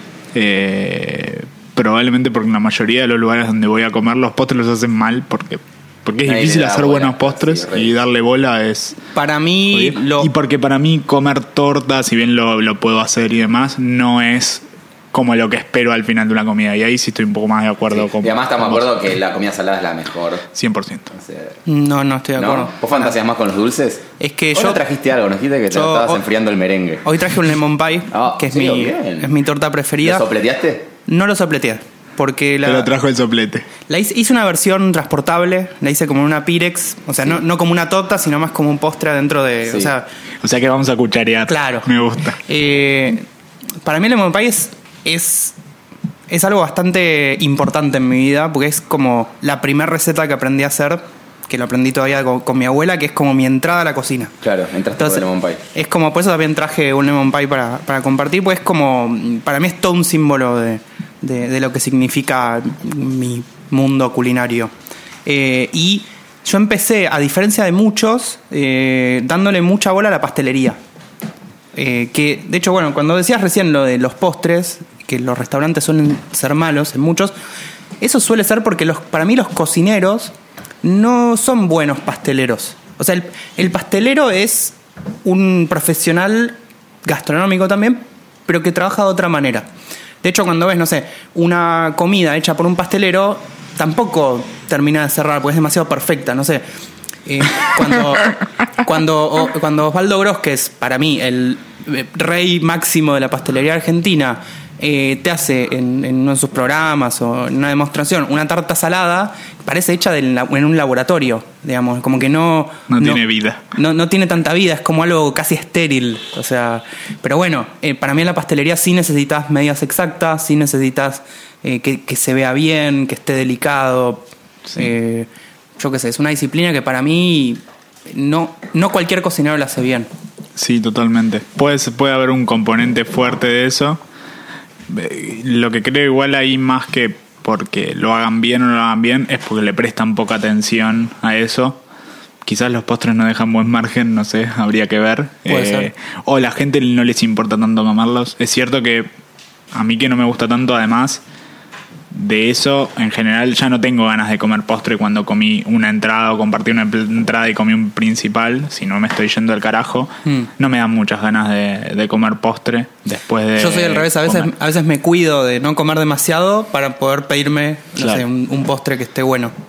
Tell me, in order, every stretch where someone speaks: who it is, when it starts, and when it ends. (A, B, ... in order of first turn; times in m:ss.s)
0:00.3-0:09.0 A
0:06.2-0:07.9 B
0:09.1-0:10.3 C
0:09.7-0:18.9 A
0:17.9-0:20.4 B
0:20.5-0:21.1 A
0:21.1-0:21.6 B
0:21.6-0:23.1 C
0:22.4-0:27.1 B
0:24.2-0:24.8 C
0:25.7-0:26.2 C
0:27.0-0:30.3 C
0:28.1-0:29.3 B
0:30.0-0:30.9 B
0:31.1-0:32.9 C
0:32.6-0:33.7 A
0:33.9-0:40.0 C
0:39.7-0:39.9 B
0:40.4-0:42.4 A
0:41.5-0:41.9 C
0:42.4-0:43.2 C
0:43.8-0:45.6 C
0:46.3-0:54.3 C
0:54.4-0:55.6 B
0:55.0-1:04.7 C
1:05.2-1:10.8 C
1:11.7-1:17.3 C
1:18.0-1:29.7 C
1:30.2-1:36.6 C
1:37.2-2:10.1 C
1:52.9-1:53.6 A
2:10.6-2:14.0 A
2:14.9-2:21.8 A
2:22.4-2:29.1 A
2:25.5-2:25.9 C
2:29.7-2:31.2 A
2:32.1-2:44.5 A
2:43.6-2:49.5 C
2:48.0-2:48.2 A